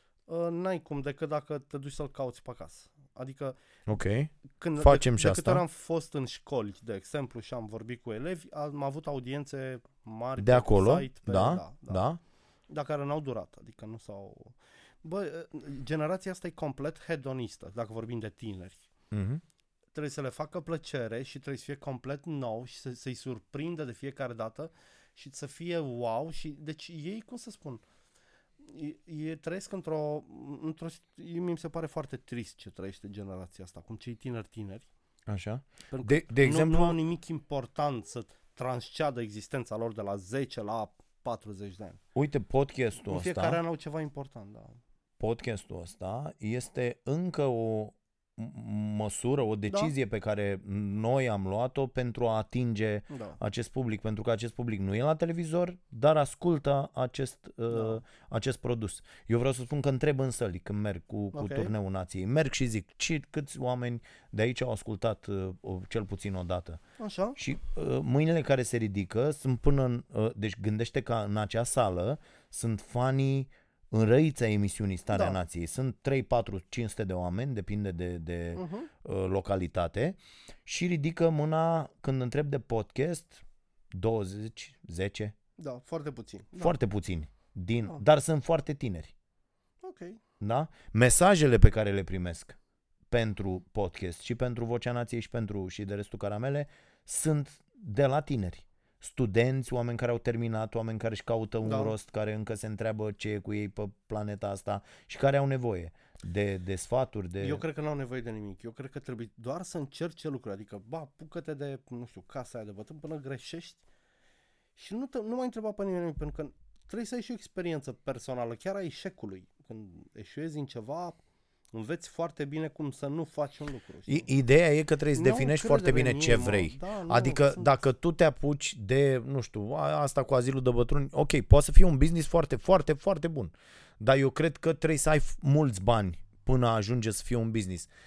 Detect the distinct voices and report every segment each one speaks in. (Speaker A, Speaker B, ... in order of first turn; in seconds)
Speaker A: 0.3-3.6, 4.6-12.0, 12.7-18.9, 19.9-27.8, 28.6-34.9, 35.9-42.0, 43.1-44.8, 49.7-49.9, 53.1-53.4, 57.7-58.0, 61.3-61.7, 67.0-67.4, 75.1-75.4, 78.5-78.9, 85.6-86.8, 89.8-90.2, 101.6-102.0, 107.4-113.8, 114.8-121.2, 121.7-124.3, 125.1-127.8
Speaker B: 3.9-5.6, 10.4-12.2, 19.1-19.4, 35.3-37.0, 42.1-43.6, 45.2-66.8, 67.4-83.4, 83.9-85.3, 86.6-89.1, 90.4-92.6, 93.1-107.6, 124.1-137.9